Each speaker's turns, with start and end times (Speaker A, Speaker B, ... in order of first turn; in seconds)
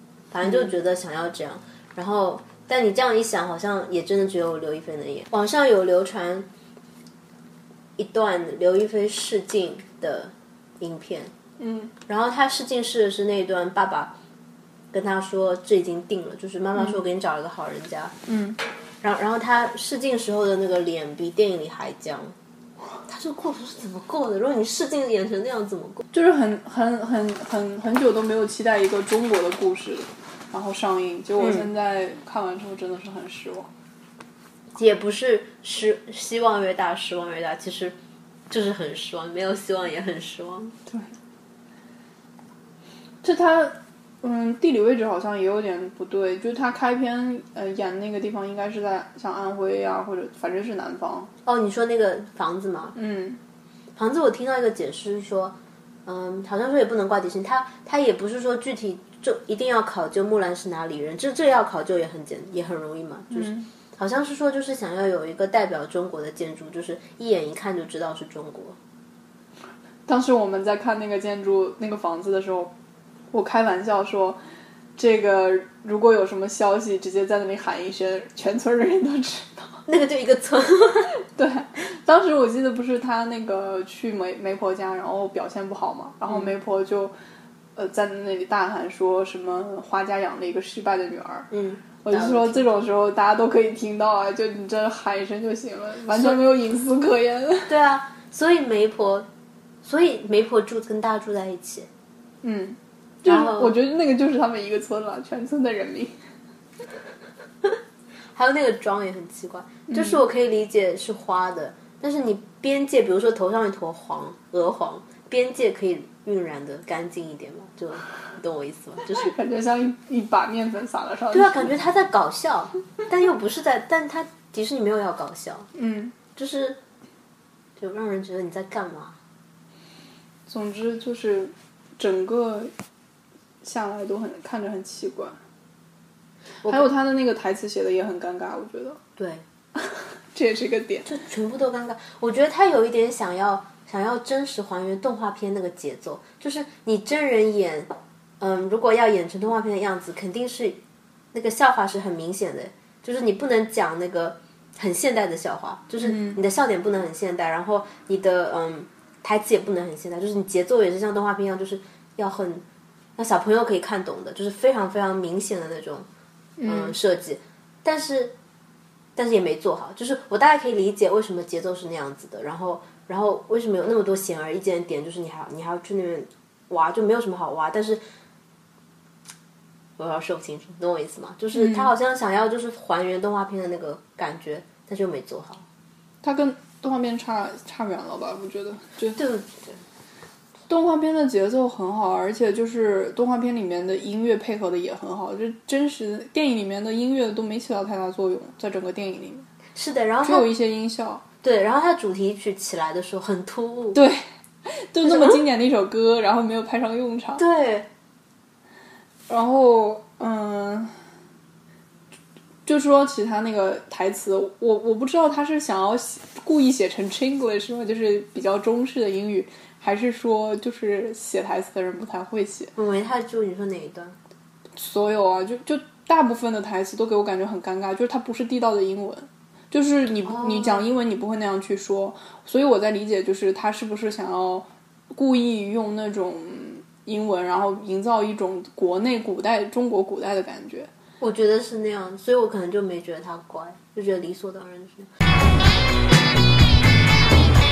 Speaker A: 0.3-6.5, 8.0-11.3, 12.1-14.1, 14.9-18.1, 19.0-22.3, 23.1-26.0, 31.4-31.7, 34.7-38.0, 38.5-40.7, 51.5-53.0, 54.0-68.8, 79.9-81.2, 91.5-92.7, 96.1-96.4, 97.7-99.3, 99.8-101.9, 103.2-103.7, 108.3-119.3, 121.3-125.7, 126.3-126.8, 127.8-129.2, 139.2-139.4, 141.1-150.8, 151.3-162.6, 163.2-166.1, 166.6-168.3, 169.2-178.0, 180.0-185.6, 189.1-189.8, 199.7-200.5, 201.4-204.0, 205.0-205.4, 207.4-207.9, 222.8-224.2, 230.2-230.9, 241.2-245.1
Speaker B: 0.4-0.7, 11.6-11.9, 18.2-18.6, 26.1-33.7, 43.2-51.3, 52.9-53.4, 63.3-63.7, 70.1-72.7, 73.3-74.4, 75.0-79.8, 81.3-87.1, 87.8-91.5, 92.0-97.7, 102.4-106.1, 109.9-110.2, 119.1-121.7, 125.7-126.1, 130.5-132.7, 133.6-135.4, 136.6-139.0, 139.8-141.1, 156.0-156.4, 166.6-166.9, 181.5-181.9, 186.2-189.2, 190.7-199.5, 200.2-201.2, 203.9-207.4, 209.3-210.9, 212.7-222.7, 224.8-240.9